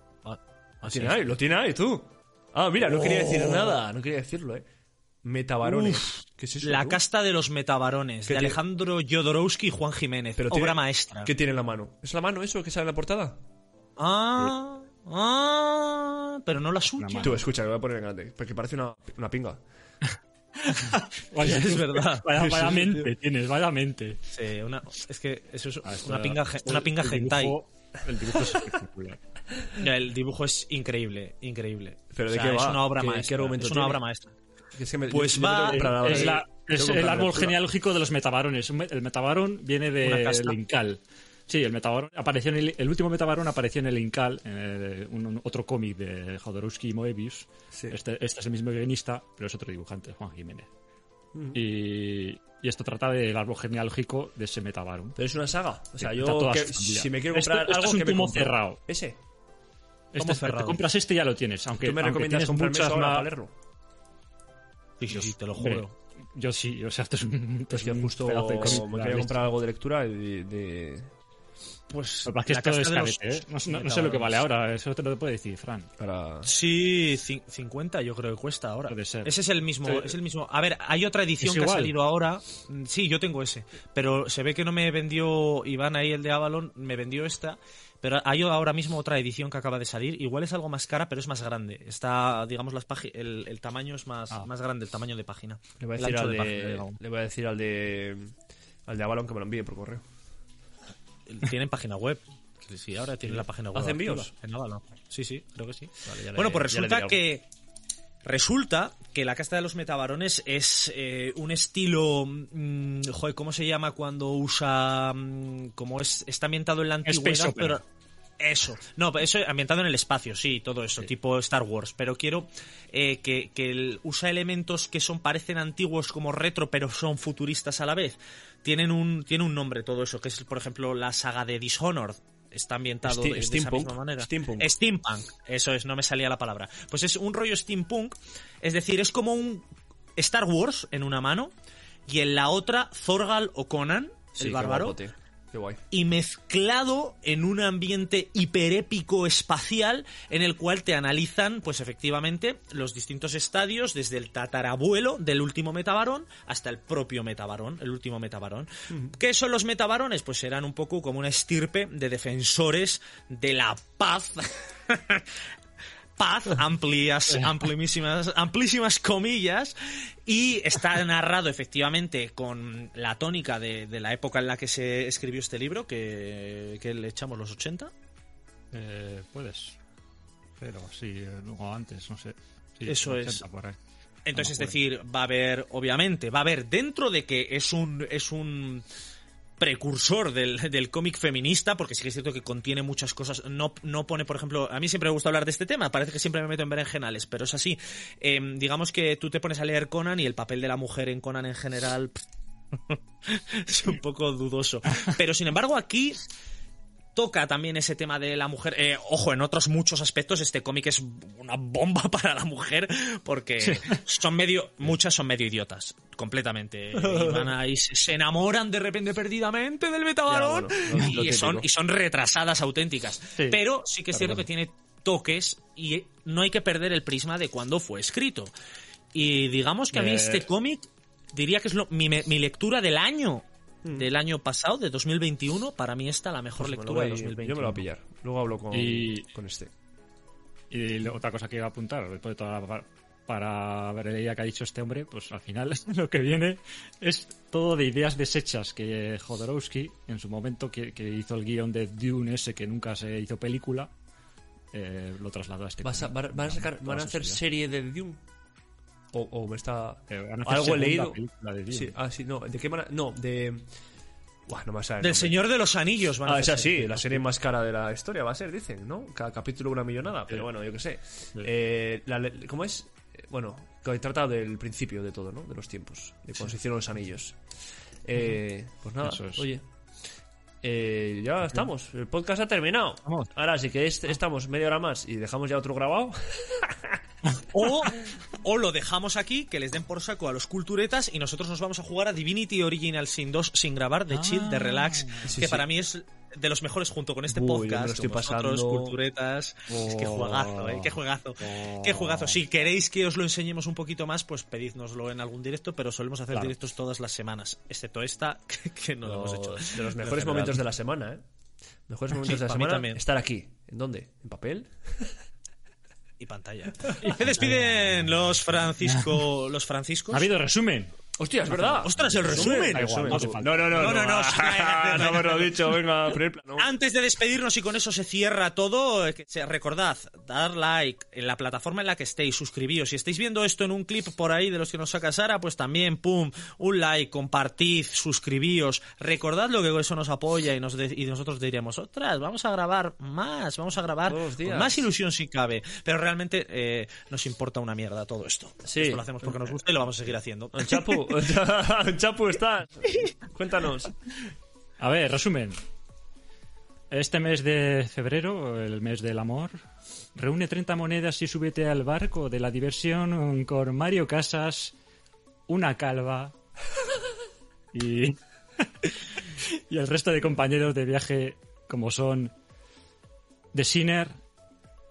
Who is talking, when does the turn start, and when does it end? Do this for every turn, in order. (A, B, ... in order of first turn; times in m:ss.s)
0:00.2-0:01.3 A
0:00.8-0:04.6 B
0:02.8-0:03.8 A
0:05.2-0:07.0 B
0:05.6-0:11.3 A
0:08.3-0:08.6 B
0:10.4-0:13.4 B
0:14.0-0:17.4 A
0:17.0-0:17.4 C
0:17.2-0:19.6 B
0:20.7-0:24.2 C
0:21.4-0:22.3 A
0:22.3-0:23.1 B
0:24.3-0:27.6 A
0:25.8-0:29.2 C
0:29.8-0:34.3 A
0:32.1-0:34.0 B
0:34.7-0:37.6 B
0:35.1-0:36.4 A
0:35.7-0:50.7 C
0:40.0-0:40.6 A
0:51.3-0:51.6 B
0:51.5-0:55.2 C
0:55.2-0:59.2 B
0:56.0-0:58.8 C
1:00.1-1:03.3 C
1:00.2-1:00.8 A
1:01.8-1:03.5 B
1:05.0-1:05.9 A
1:05.1-1:09.4 C
1:07.7-1:11.1 B
1:11.9-1:14.4 A
1:12.2-1:15.9 C
1:16.0-1:16.5 B
1:16.4-1:37.0 A
1:18.9-1:20.2 C
1:21.4-1:21.9 C
1:35.8-1:38.3 B
1:38.9-1:40.0 B
1:41.3-1:47.4 A
1:43.3-1:44.3 B
1:46.0-1:47.2 B
1:48.2-1:57.8 A
1:57.0-1:57.8 C
1:58.4-2:19.6 A
2:13.0-2:14.7 B
2:20.2-2:21.5 A
2:22.1-2:25.0 A
2:24.4-2:25.8 B
2:25.9-2:45.3 A
2:46.2-2:49.7 A
2:50.2-2:57.9 A
2:58.7-2:59.8 C
3:00.6-3:03.8 C
3:02.8-3:03.4 A
3:04.2-3:08.8 A
3:04.3-3:04.8 C
3:09.6-3:22.2 A
3:22.9-3:26.2 A
3:27.1-3:48.5 A
3:33.6-3:34.0 C
3:36.9-3:37.5 B
3:40.3-3:41.7 B
3:43.4-3:43.6 C
3:44.1-3:44.4 C
3:49.1-3:57.8 A
3:49.9-3:50.5 C
3:56.6-3:59.7 B
3:58.7-3:59.3 C
4:00.7-4:13.9 C
4:14.7-4:17.4 C
4:15.8-4:18.2 B
4:19.1-4:23.6 B
4:20.1-4:21.9 C
4:24.5-4:25.4 B
4:25.0-4:27.1 A
4:26.2-4:37.4 B
4:38.0-4:39.6 B
4:39.0-4:39.5 C
4:40.6-4:47.0 B
4:47.5-5:10.6 A
4:54.1-4:55.4 C
4:55.2-4:55.6 B
4:57.3-4:59.0 B
4:59.7-5:02.4 C
5:09.0-5:11.2 B
5:11.9-5:15.1 B
5:12.2-5:13.0 A
5:16.2-5:20.3 A
5:17.0-5:18.2 C
5:18.8-5:19.3 C
5:20.1-5:20.9 C
5:21.2-5:26.7 B
5:21.5-5:24.0 C
5:21.8-5:25.8 A
5:26.6-5:51.2 A
5:44.0-5:44.8 B
5:48.6-5:49.4 B
5:50.5-5:53.9 B
5:54.8-5:55.6 C
5:56.9-5:59.6 C
6:00.1-6:04.7 C
6:05.5-6:06.3 C
6:07.7-6:12.3 C
6:13.5-6:14.2 C